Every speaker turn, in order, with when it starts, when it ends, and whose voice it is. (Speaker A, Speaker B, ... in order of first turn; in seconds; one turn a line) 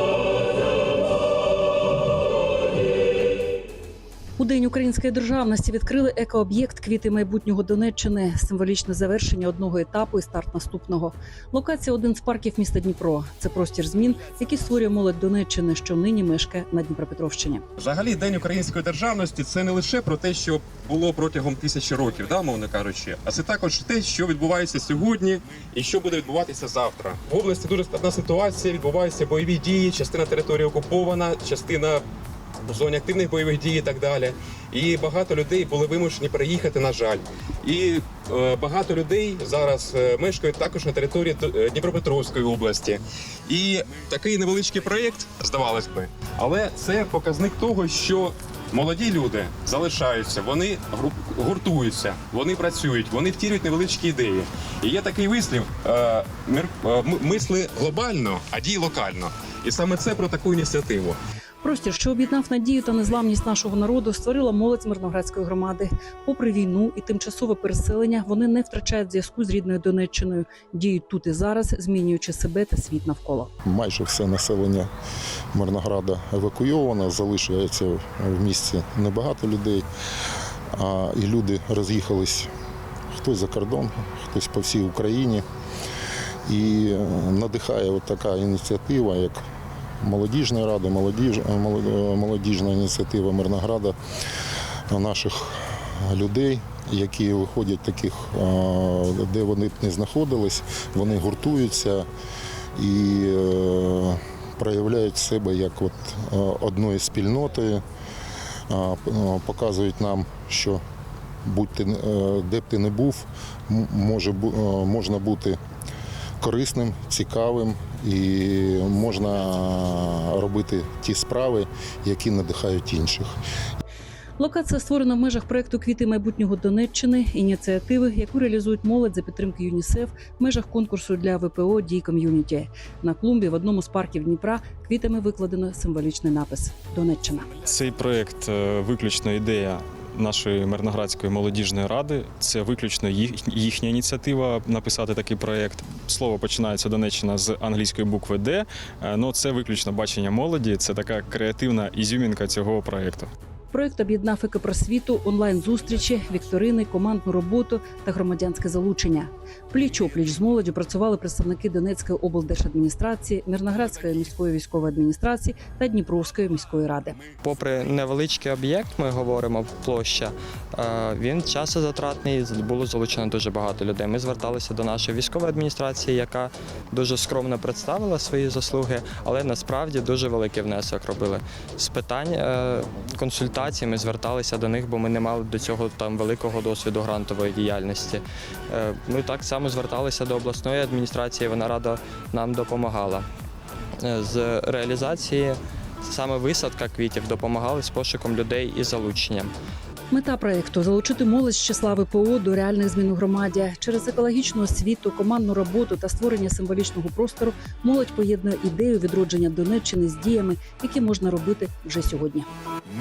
Speaker A: 4.4-17.6
Speaker B: 17.8-32.0
Speaker B: 32.6-61.2
Speaker A: 61.6-73.5
Speaker C: 73.7-74.9
Speaker C: 75.5-79.9
Speaker C: 80.8-82.5
Speaker C: 83.1-85.4
Speaker C: 86.5-89.4
Speaker C: 90.0-94.0
Speaker C: 94.9-102.1
Speaker C: 102.8-107.8
Speaker C: 108.7-110.8
Speaker C: 111.5-115.6
Speaker C: 116.4-123.4
Speaker A: 124.4-137.5
Speaker D: 137.7-153.3
Speaker A: 153.7-167.2
Speaker E: 167.4-193.2
Speaker E: 194.0-199.5
Speaker A: 200.1-212.5